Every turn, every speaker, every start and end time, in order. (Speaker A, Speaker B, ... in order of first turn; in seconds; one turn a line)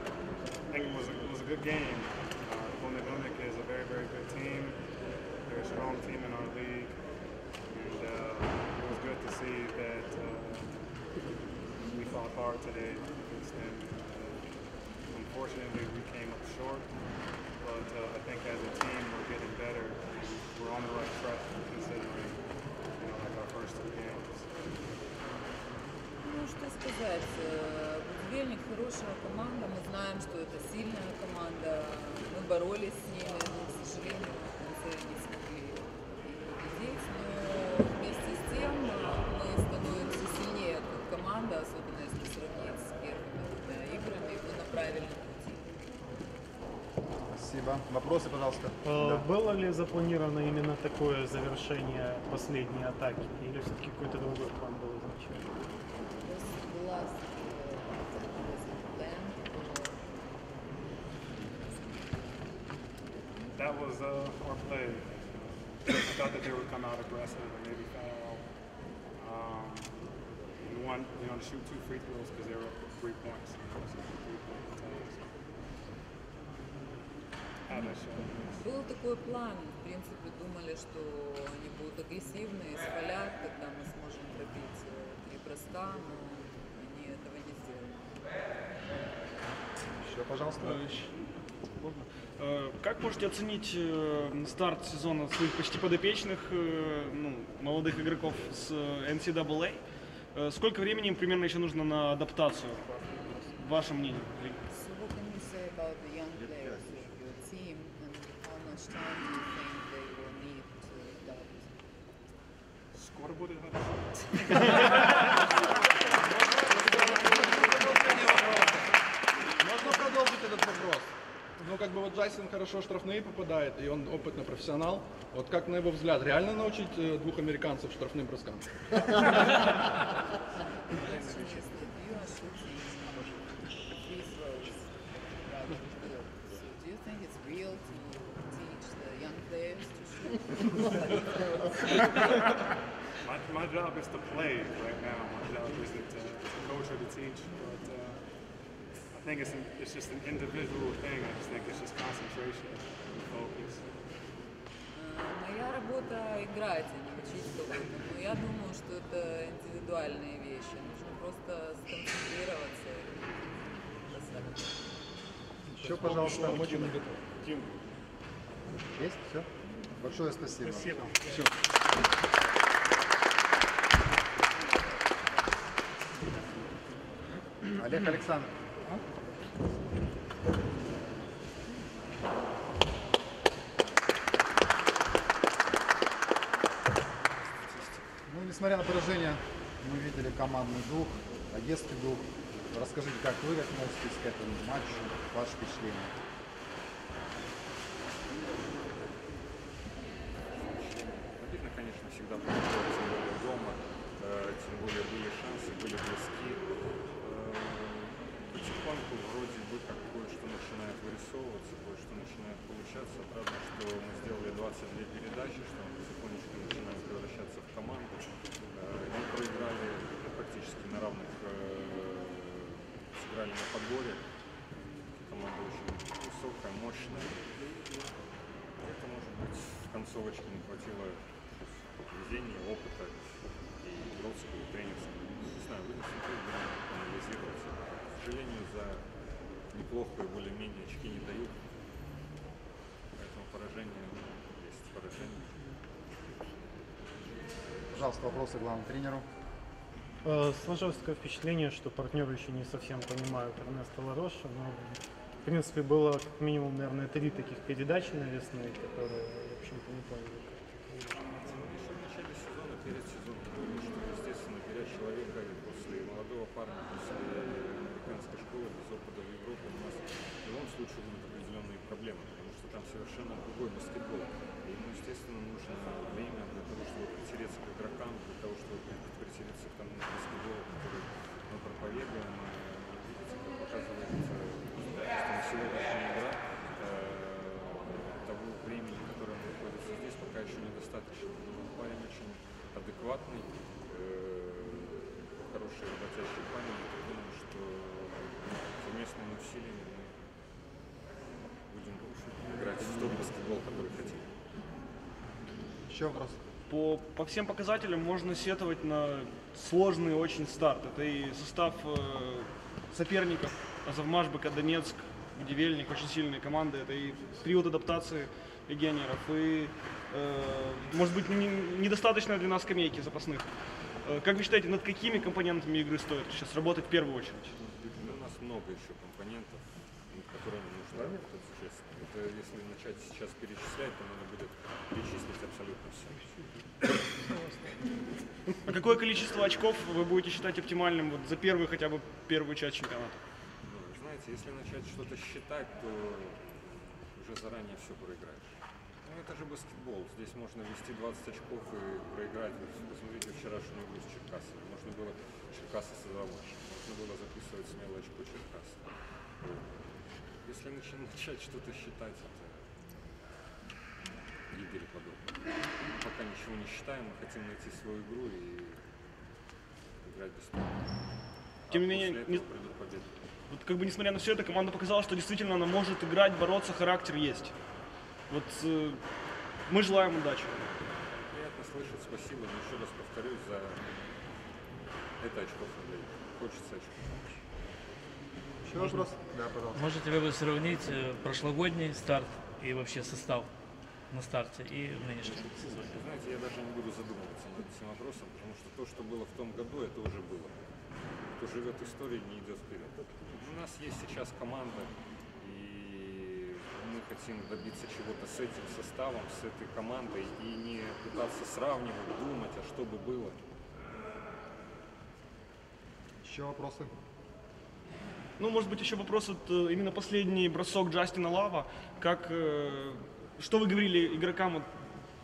Speaker A: 0.7-11.1
Speaker A: 11.8-24.6
Speaker B: 26.2-45.7
Speaker C: 47.3-49.3
Speaker D: 48.8-55.5
Speaker B: 56.1-60.1
Speaker B: 61.5-62.0
Speaker A: 63.5-68.6
Speaker A: 69.1-75.5
Speaker A: 77.7-78.7
Speaker B: 78.6-88.1
Speaker C: 89.9-90.8
Speaker E: 90.6-91.2
Speaker E: 91.8-102.9
Speaker E: 103.5-104.6
Speaker B: 104.7-111.8
Speaker A: 112.9-115.2
Speaker F: 117.5-118.5
Speaker F: 119.6-129.3
Speaker B: 130.9-142.3
Speaker A: 143.2-153.9
Speaker B: 154.9-164.9
Speaker C: 165.7-166.9
Speaker F: 165.8-167.7
Speaker C: 168.9-171.5
Speaker C: 177.7-178.5
Speaker C: 188.3-196.1
Speaker G: 200.4-206.6
Speaker G: 207.2-224.2
Speaker G: 225.1-228.1
Speaker G: 228.8-233.2
Speaker G: 233.8-239.1
Speaker G: 239.7-241.6
Speaker G: 243.2-245.5
Speaker C: 247.9-249.2
Speaker D: 250.2-261.1
Speaker G: 261.3-300.1
Speaker G: 301.7-304.3
Speaker C: 302.8-303.1
Speaker C: 305.9-306.4
Speaker E: 306.7-323.5
Speaker E: 324.0-327.5
Speaker G: 327.6-336.2
Speaker E: 338.7-343.2
Speaker G: 343.6-359.7
Speaker G: 360.4-362.7
Speaker G: 364.5-368.8
Speaker G: 370.0-370.8
Speaker G: 371.7-373.1
Speaker E: 371.7-372.4
Speaker E: 373.5-377.5
Speaker E: 378.3-379.0
Speaker E: 379.7-380.7
Speaker G: 381.0-383.9
Speaker G: 385.2-387.3
Speaker C: 388.6-389.9
Speaker H: 388.7-389.1
Speaker H: 389.7-393.5
Speaker H: 394.1-396.0
Speaker G: 395.6-400.6
Speaker G: 401.4-413.4
Speaker C: 416.2-416.9
Speaker E: 418.4-424.7